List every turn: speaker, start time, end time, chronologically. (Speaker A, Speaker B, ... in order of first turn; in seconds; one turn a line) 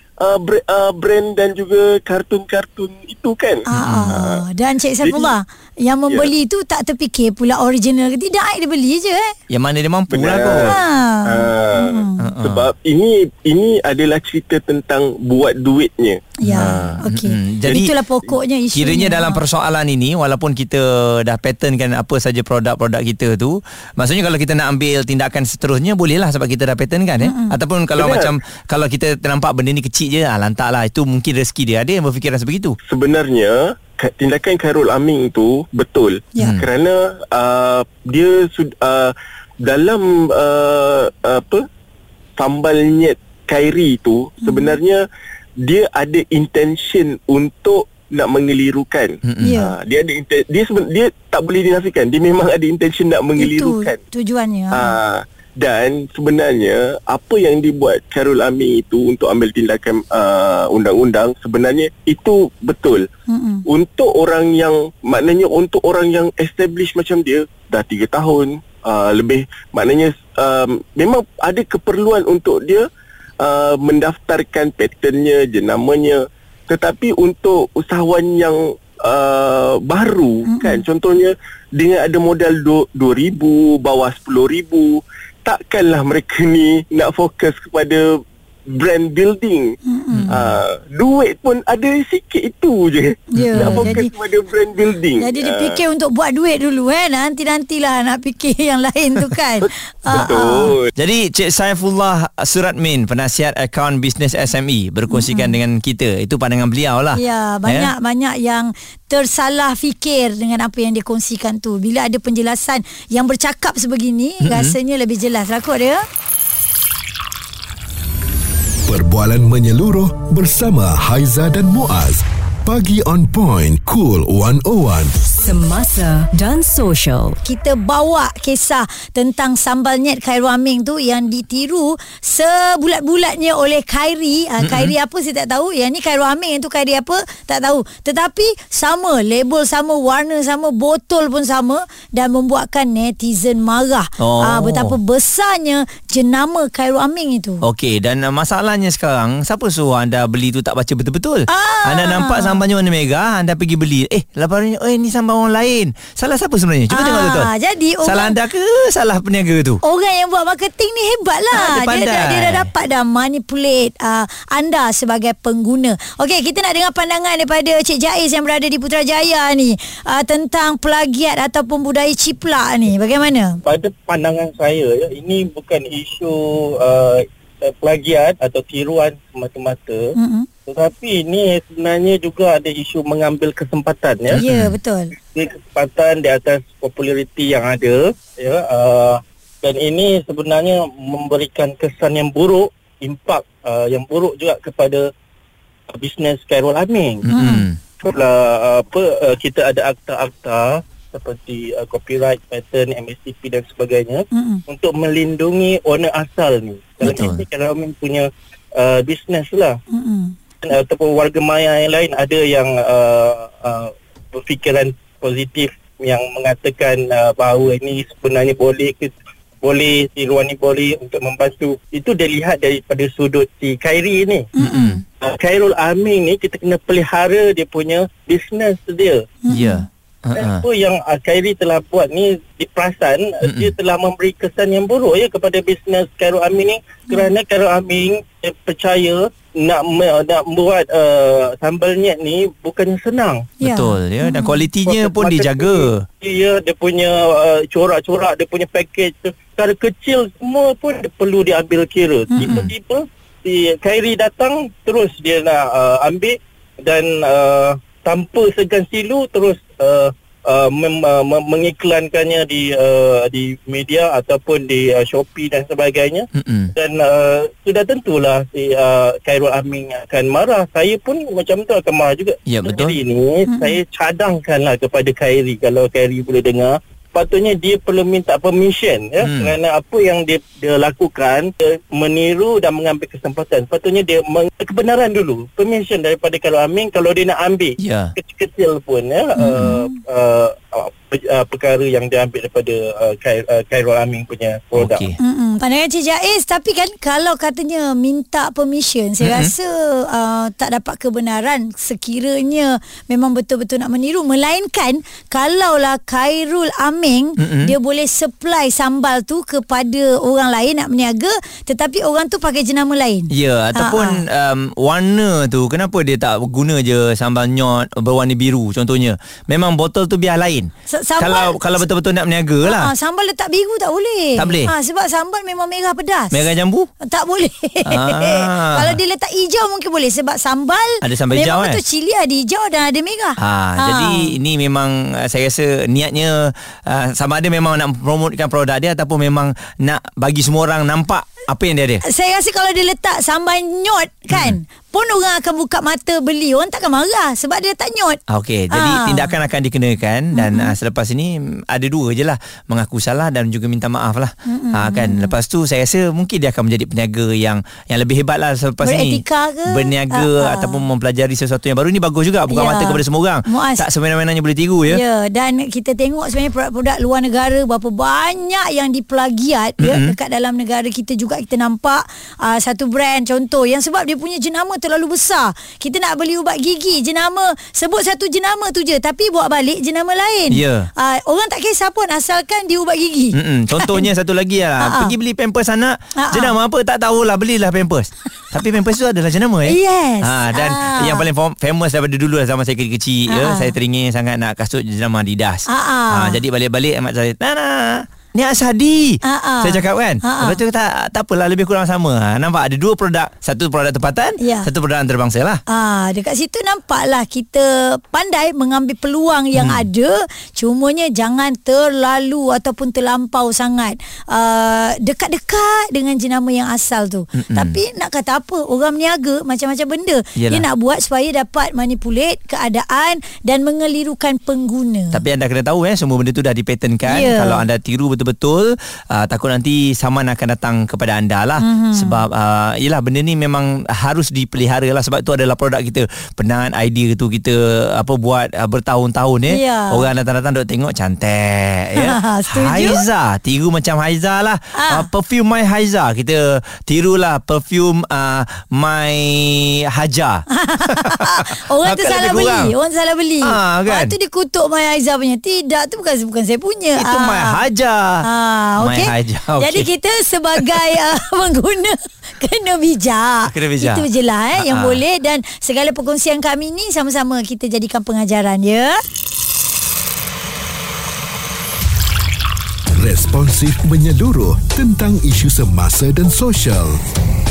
Speaker A: 0.2-4.4
Speaker B: 3.7-9.3
Speaker C: 3.8-4.1
Speaker A: 5.0-5.3
Speaker A: 6.1-6.3
Speaker C: 9.5-10.8
Speaker A: 10.1-17.0
Speaker B: 10.7-12.2
Speaker C: 12.2-12.7
Speaker B: 16.4-19.4
Speaker C: 16.5-17.9
Speaker A: 17.6-18.3
Speaker C: 18.7-32.8
Speaker B: 27.2-27.5
Speaker A: 27.9-28.3
Speaker A: 32.9-41.6
Speaker C: 36.4-36.6
Speaker A: 42.4-45.0
Speaker B: 44.4-44.8
Speaker A: 45.6-54.0
Speaker C: 49.2-49.5
Speaker B: 49.4-49.7
Speaker B: 53.4-54.9
Speaker A: 54.7-63.0
Speaker B: 63.3-63.6
Speaker A: 63.7-72.8
Speaker A: 73.4-88.1
Speaker B: 80.5-80.8
Speaker A: 88.7-89.7
Speaker B: 89.9-90.3
Speaker C: 90.1-90.5
Speaker A: 90.3-95.8
Speaker B: 93.3-94.1
Speaker C: 93.4-94.0
Speaker B: 95.2-100.7
Speaker A: 99.6-100.9
Speaker C: 100.9-107.9
Speaker B: 105.1-105.5
Speaker B: 107.1-116.0
Speaker C: 114.4-114.8
Speaker D: 118.9-125.1
Speaker E: 125.2-127.4
Speaker B: 127.4-147.6
Speaker C: 134.6-134.9
Speaker C: 144.2-145.0
Speaker C: 147.6-157.5
Speaker B: 151.5-152.6
Speaker B: 156.9-158.4
Speaker C: 158.0-159.8
Speaker B: 159.8-173.6
Speaker C: 161.5-162.7
Speaker F: 173.6-180.1
Speaker B: 180.2-180.5
Speaker F: 180.7-184.4
Speaker B: 184.4-185.1
Speaker C: 184.4-184.7
Speaker F: 185.3-195.1
Speaker F: 195.9-197.2
Speaker C: 197.2-197.8
Speaker B: 197.3-197.7
Speaker F: 198.0-209.7
Speaker B: 204.3-204.6
Speaker C: 207.0-207.4
Speaker B: 209.9-210.3
Speaker F: 210.6-224.5
Speaker B: 224.6-225.0
Speaker C: 224.6-225.0
Speaker F: 225.2-229.3
Speaker B: 229.4-229.8
Speaker C: 229.5-230.6
Speaker F: 230.3-243.5
Speaker C: 233.4-233.7
Speaker B: 243.6-244.6
Speaker C: 243.6-246.0
Speaker F: 244.8-295.0
Speaker B: 252.3-252.6
Speaker C: 252.4-252.7
Speaker C: 266.3-266.7
Speaker C: 272.4-273.0
Speaker B: 273.5-273.8
Speaker C: 279.2-279.5
Speaker C: 287.8-288.1
Speaker B: 289.4-289.9
Speaker C: 289.4-289.8
Speaker C: 294.7-295.1
Speaker B: 295.2-314.2
Speaker C: 299.2-299.5
Speaker C: 307.4-307.7
Speaker C: 313.3-322.9
Speaker B: 320.9-321.6
Speaker B: 322.6-334.3
Speaker C: 324.4-324.7
Speaker C: 326.3-326.9
Speaker C: 327.9-329.0
Speaker C: 331.0-331.8
Speaker C: 333.4-342.0
Speaker B: 342.1-348.2
Speaker C: 344.3-344.6
Speaker C: 348.3-365.0
Speaker B: 348.7-349.3
Speaker B: 350.3-350.7
Speaker B: 354.4-355.3
Speaker B: 358.8-360.8
Speaker B: 362.5-363.9
Speaker B: 364.9-384.1
Speaker C: 369.8-370.1
Speaker C: 380.5-380.9
Speaker C: 383.3-405.6
Speaker B: 384.8-385.1
Speaker B: 386.1-386.5
Speaker B: 389.6-391.2
Speaker B: 393.3-393.7
Speaker B: 395.7-396.4
Speaker B: 399.2-400.6
Speaker B: 404.4-404.7
Speaker B: 405.7-425.2
Speaker C: 409.5-409.9
Speaker C: 417.4-417.8
Speaker C: 420.4-420.6
Speaker C: 425.1-452.7
Speaker B: 427.0-427.6
Speaker B: 431.6-432.2
Speaker B: 439.5-440.1
Speaker B: 442.0-443.0
Speaker B: 444.7-445.1
Speaker B: 450.5-457.6
Speaker C: 453.4-454.1
Speaker C: 456.9-458.2
Speaker B: 458.2-469.0
Speaker C: 458.8-459.9
Speaker C: 463.4-465.0
Speaker D: 472.9-477.0